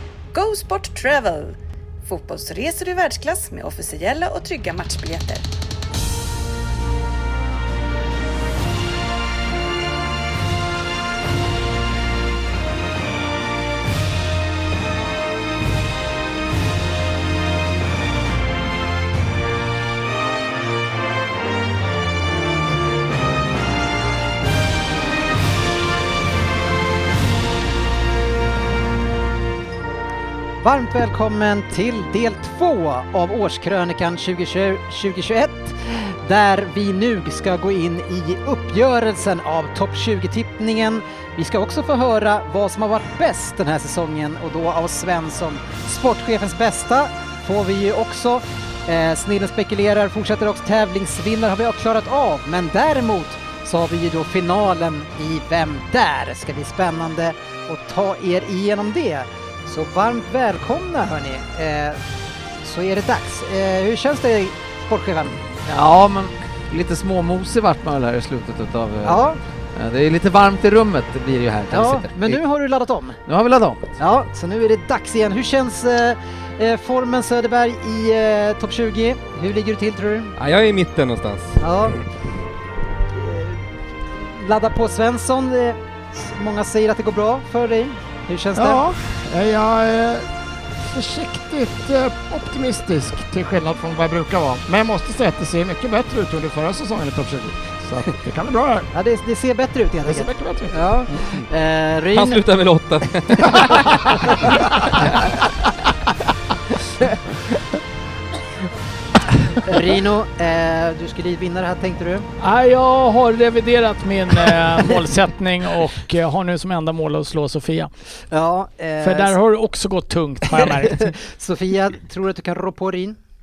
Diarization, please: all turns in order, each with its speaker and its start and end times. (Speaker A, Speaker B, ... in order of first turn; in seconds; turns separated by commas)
Speaker A: 0.3-5.4, Speaker B: 30.6-62.0, Speaker B: 62.6-65.5, Speaker C: 65.7-72.4, Speaker B: 69.0-69.4, Speaker B: 71.7-73.2, Speaker C: 73.2-73.8, Speaker B: 74.0-80.3, Speaker D: 80.4-81.6, Speaker B: 81.6-82.0, Speaker B: 83.1-88.8, Speaker E: 88.5-90.3, Speaker E: 90.9-98.9, Speaker B: 98.9-102.4, Speaker E: 100.0-101.4, Speaker D: 102.1-105.0, Speaker E: 103.5-104.2, Speaker B: 109.6-112.3, Speaker F: 112.4-117.9, Speaker B: 118.3-119.4, Speaker F: 119.0-121.1, Speaker B: 120.5-123.2